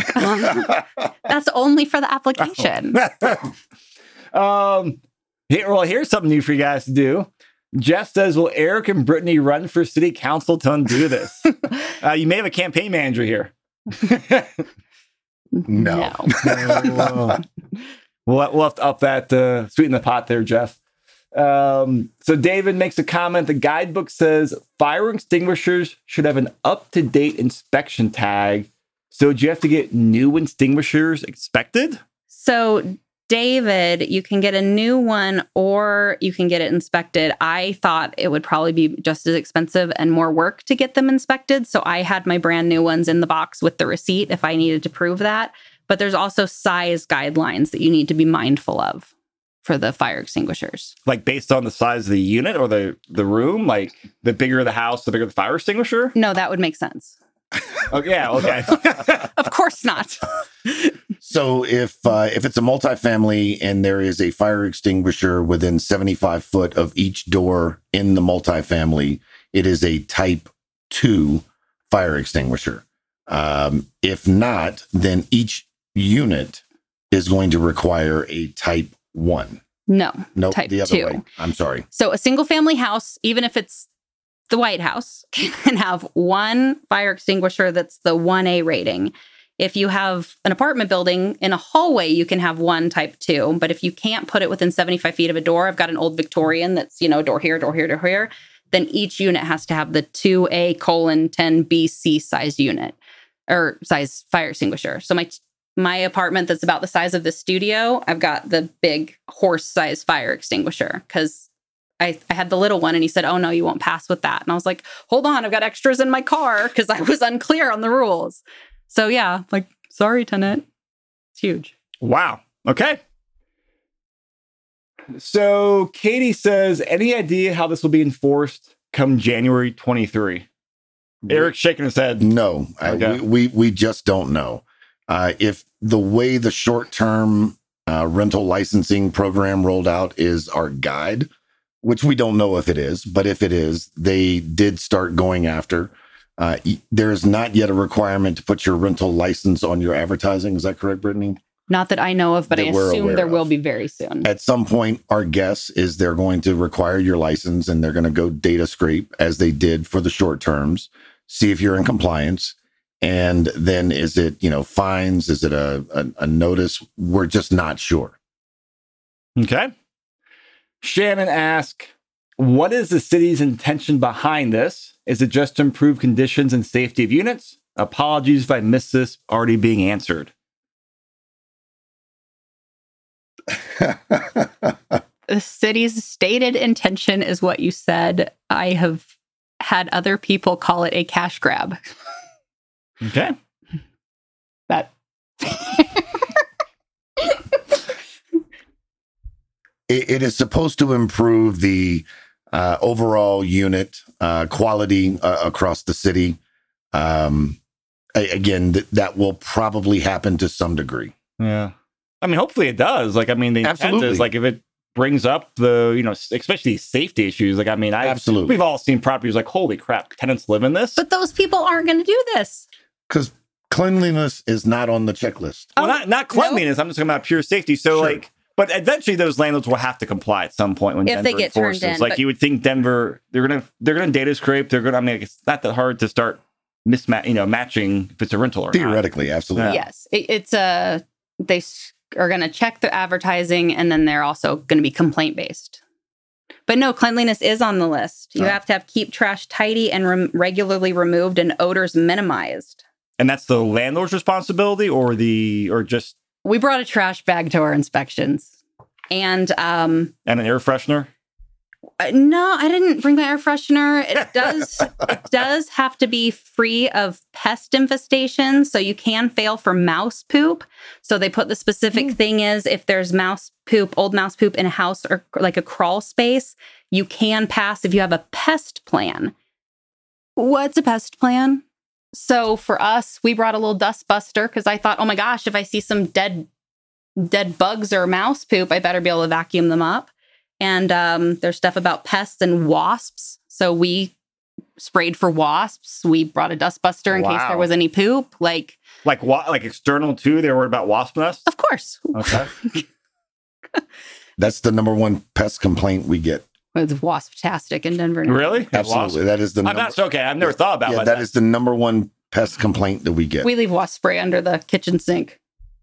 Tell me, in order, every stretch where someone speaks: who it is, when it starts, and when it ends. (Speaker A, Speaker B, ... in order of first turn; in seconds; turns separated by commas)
Speaker A: 0.1-3.0, Speaker B: 2.4-3.5, Speaker B: 4.3-14.6, Speaker A: 15.6-16.4, Speaker C: 15.7-17.4, Speaker B: 16.3-17.4, Speaker B: 18.3-20.8, Speaker B: 21.3-32.0, Speaker A: 32.3-49.1, Speaker A: 49.6-51.0, Speaker B: 51.1-56.1, Speaker A: 56.2-57.2, Speaker B: 57.9-59.3, Speaker A: 59.0-60.9, Speaker C: 61.2-79.6, Speaker A: 79.9-81.2, Speaker C: 80.4-81.9, Speaker A: 81.9-83.9, Speaker A: 84.5-103.0, Speaker A: 103.5-111.5, Speaker A: 112.0-120.7, Speaker A: 121.4-121.7, Speaker B: 122.0-123.0, Speaker B: 125.1-130.5, Speaker C: 131.2-131.5, Speaker B: 131.3-132.3, Speaker C: 132.2-141.3, Speaker B: 132.8-133.2, Speaker C: 141.8-151.4, Speaker A: 151.7-154.3, Speaker C: 152.5-153.4, Speaker C: 154.2-168.2, Speaker B: 169.4-169.7, Speaker B: 170.8-180.3, Speaker C: 183.7-184.7, Speaker A: 185.3-189.1, Speaker A: 189.6-191.8, Speaker B: 193.0-193.3, Speaker A: 194.7-196.3, Speaker C: 199.9-206.4, Speaker C: 206.9-207.6, Speaker C: 208.2-211.1, Speaker B: 211.4-221.0, Speaker C: 213.6-214.3, Speaker C: 218.0-218.6, Speaker A: 221.0-222.7, Speaker C: 223.1-225.8, Speaker A: 225.8-226.6, Speaker B: 225.8-239.0, Speaker A: 231.1-232.2, Speaker C: 238.7-239.8, Speaker B: 239.6-239.8, Speaker A: 239.7-245.8, Speaker A: 246.7-252.8, Speaker B: 253.2-256.2, Speaker A: 256.4-258.6, Speaker A: 259.1-260.1, Speaker B: 260.3-261.1, Speaker A: 262.0-279.3, Speaker A: 280.4-281.6, Speaker A: 282.1-286.5, Speaker A: 287.2-294.1, Speaker A: 294.8-298.8, Speaker B: 297.1-297.7, Speaker B: 299.0-301.4, Speaker A: 301.5-302.9, Speaker B: 302.1-302.5, Speaker C: 304.4-306.5, Speaker A: 306.8-308.6, Speaker B: 308.2-311.2, Speaker C: 308.7-313.5, Speaker A: 313.4-315.4